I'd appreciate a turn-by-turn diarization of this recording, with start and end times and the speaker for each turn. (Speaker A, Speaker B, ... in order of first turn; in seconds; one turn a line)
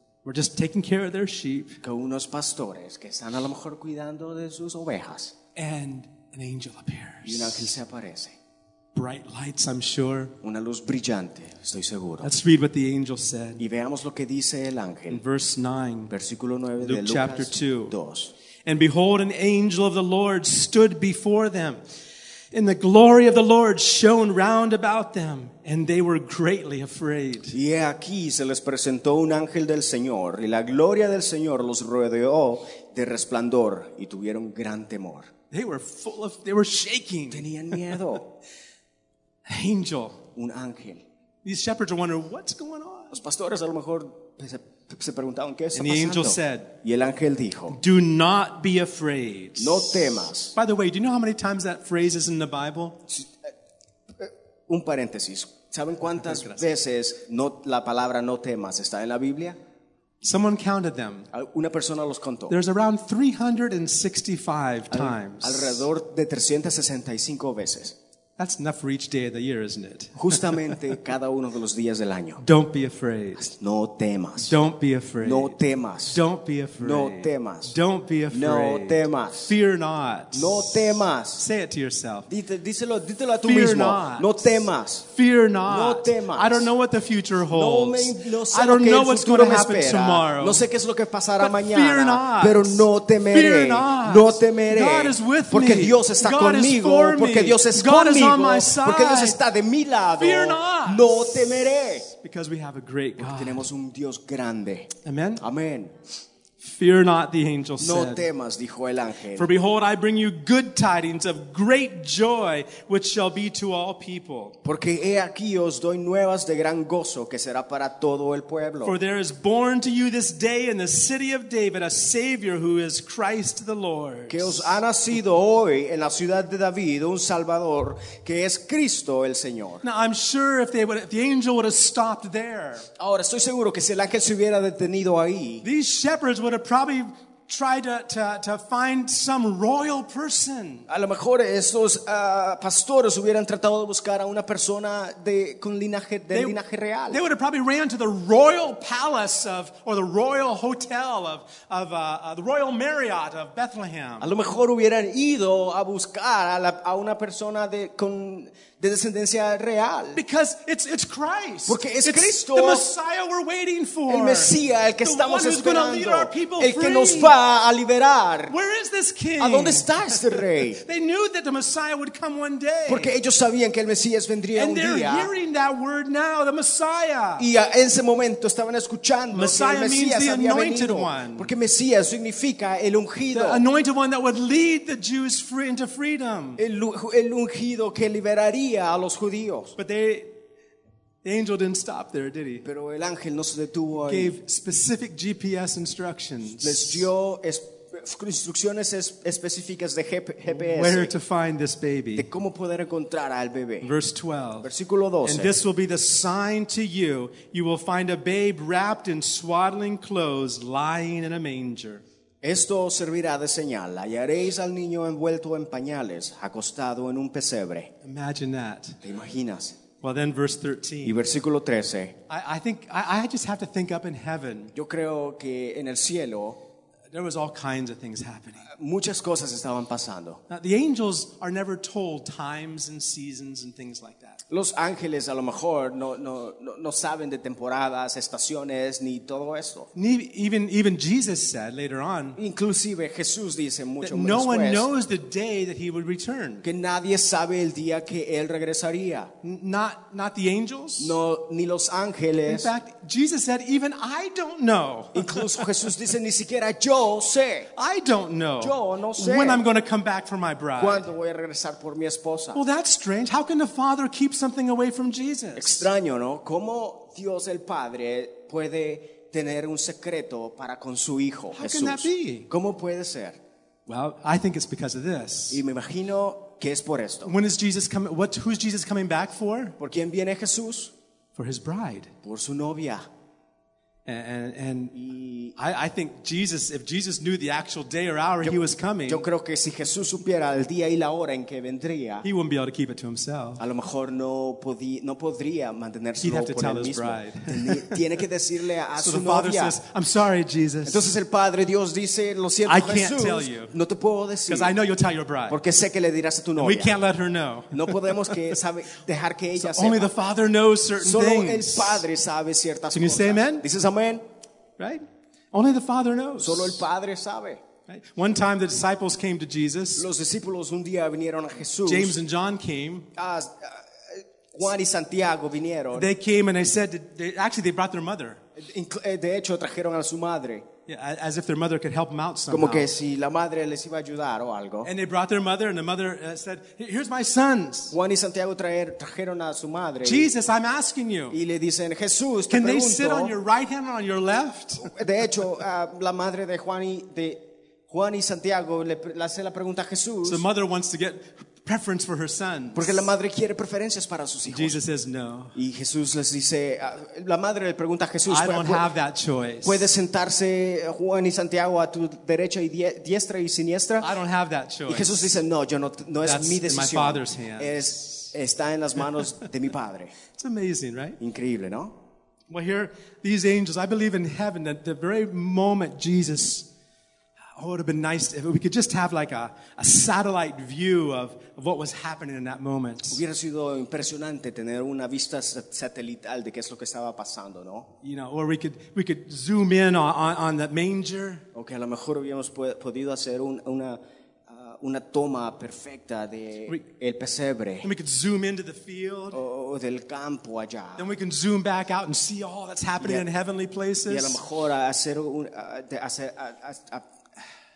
Speaker A: 0.2-1.8
Speaker B: 1.8-5.3
Speaker A: 5.5-7.7
Speaker B: 7.2-8.4
Speaker A: 8.9-10.3
Speaker B: 10.4-12.3
Speaker A: 12.2-13.6
Speaker B: 13.6-15.2
Speaker A: 15.1-16.1
Speaker B: 16.1-18.3
Speaker A: 16.8-17.9
Speaker A: 18.6-21.8
Speaker A: 22.5-27.5
Speaker B: 27.5-35.3
Speaker A: 35.5-38.0
Speaker B: 37.3-38.3
Speaker A: 39.5-40.2
Speaker B: 40.3-41.0
Speaker A: 41.4-43.2
Speaker B: 43.1-47.8
Speaker A: 45.7-46.7
Speaker A: 47.7-53.0
Speaker B: 49.6-50.5
Speaker B: 53.1-53.5
Speaker B: 54.2-59.6
Speaker A: 56.2-56.6
Speaker A: 60.2-61.3
Speaker B: 61.3-62.5
Speaker A: 62.5-65.9
Speaker B: 64.9-68.0
Speaker A: 68.4-70.9
Speaker B: 70.2-72.4
Speaker A: 72.4-73.5
Speaker B: 73.3-74.5
Speaker A: 74.4-75.6
Speaker B: 75.2-76.2
Speaker A: 76.1-82.3
Speaker B: 76.8-77.8
Speaker B: 78.3-79.5
Speaker B: 80.3-81.5
Speaker B: 82.3-85.1
Speaker A: 83.4-84.4
Speaker A: 85.1-90.6
Speaker B: 85.7-86.7
Speaker B: 87.5-102.1
Speaker A: 91.4-99.4
Speaker A: 100.2-101.5
Speaker A: 102.1-103.6
Speaker B: 103.2-105.9
Speaker A: 105.0-105.4
Speaker A: 106.6-108.2
Speaker B: 107.8-109.5
Speaker A: 109.3-114.5
Speaker B: 114.6-119.0
Speaker A: 118.8-124.8
Speaker B: 124.3-129.8
Speaker A: 129.8-132.9
Speaker B: 133.0-135.6
Speaker A: 135.6-140.9
Speaker B: 140.9-147.2
Speaker A: 146.3-146.6
Speaker A: 147.1-154.3
Speaker B: 154.2-160.2
Speaker A: 160.1-167.4
Speaker B: 161.7-162.9
Speaker B: 164.1-168.5
Speaker A: 168.5-173.1
Speaker B: 169.4-170.8
Speaker B: 172.8-175.3
Speaker A: 174.5-177.5
Speaker B: 177.4-183.6
Speaker A: 179.3-181.5
Speaker A: 183.3-186.6
Speaker B: 186.6-189.8
Speaker A: 189.8-190.3
Speaker A: 191.2-192.6
Speaker B: 192.6-194.4
Speaker A: 194.0-197.1
Speaker B: 196.5-201.1
Speaker A: 200.5-202.3
Speaker B: 202.1-203.9
Speaker A: 203.8-204.7
Speaker B: 204.6-205.6
Speaker A: 205.2-212.0
Speaker B: 212.4-217.9
Speaker A: 218.0-219.0
Speaker B: 219.0-219.8
Speaker A: 220.0-221.2
Speaker B: 221.0-222.2
Speaker A: 222.3-224.7
Speaker B: 224.7-226.6
Speaker A: 227.1-228.7
Speaker B: 228.7-230.4
Speaker A: 230.5-234.4
Speaker B: 234.5-239.9
Speaker A: 239.9-242.4
Speaker B: 242.4-244.9
Speaker A: 244.0-246.6
Speaker B: 246.6-249.3
Speaker A: 249.4-251.2
Speaker B: 251.0-252.7
Speaker A: 252.5-255.6
Speaker B: 255.1-257.7
Speaker A: 257.8-261.1
Speaker B: 258.6-259.6
Speaker B: 260.8-262.6
Speaker A: 262.5-265.9
Speaker B: 265.6-273.4
Speaker A: 271.5-272.5
Speaker A: 273.9-275.6
Speaker B: 275.5-277.3
Speaker A: 277.2-279.8
Speaker B: 279.8-280.9
Speaker A: 281.4-282.1
Speaker B: 282.2-283.0
Speaker A: 284.1-284.9
Speaker B: 284.9-285.6
Speaker A: 285.6-289.3
Speaker B: 288.4-292.2
Speaker A: 292.2-293.6
Speaker B: 293.6-299.8
Speaker A: 296.2-298.0
Speaker A: 299.0-301.0
Speaker B: 300.9-304.7
Speaker A: 302.6-303.7
Speaker A: 304.5-305.6
Speaker B: 305.5-306.9
Speaker A: 306.6-308.6
Speaker B: 307.7-310.1
Speaker A: 309.6-312.1
Speaker B: 311.0-314.2
Speaker A: 312.9-313.6
Speaker A: 314.8-316.8
Speaker B: 316.4-317.6
Speaker A: 317.9-320.1
Speaker B: 319.9-322.2
Speaker A: 321.8-323.1
Speaker B: 323.1-326.1
Speaker A: 325.9-328.4
Speaker B: 328.6-330.7
Speaker A: 330.9-332.9
Speaker B: 332.5-334.9
Speaker A: 334.8-337.9
Speaker B: 337.9-340.3
Speaker A: 340.0-341.4
Speaker B: 341.3-343.3
Speaker A: 342.5-345.0
Speaker B: 344.8-350.4
Speaker A: 350.2-353.1
Speaker B: 352.7-354.8
Speaker A: 354.5-355.6
Speaker B: 355.5-358.9
Speaker A: 358.3-359.9
Speaker B: 359.6-364.1
Speaker A: 364.0-365.4
Speaker B: 364.9-370.1
Speaker A: 366.2-368.3
Speaker A: 370.3-371.2
Speaker B: 371.2-371.9
Speaker A: 372.5-376.7
Speaker A: 377.5-383.2
Speaker B: 383.1-387.9
Speaker A: 388.0-391.4
Speaker B: 391.5-397.9
Speaker A: 397.8-399.4
Speaker B: 399.3-401.1
Speaker A: 401.0-404.4
Speaker B: 403.0-403.3
Speaker B: 404.1-407.1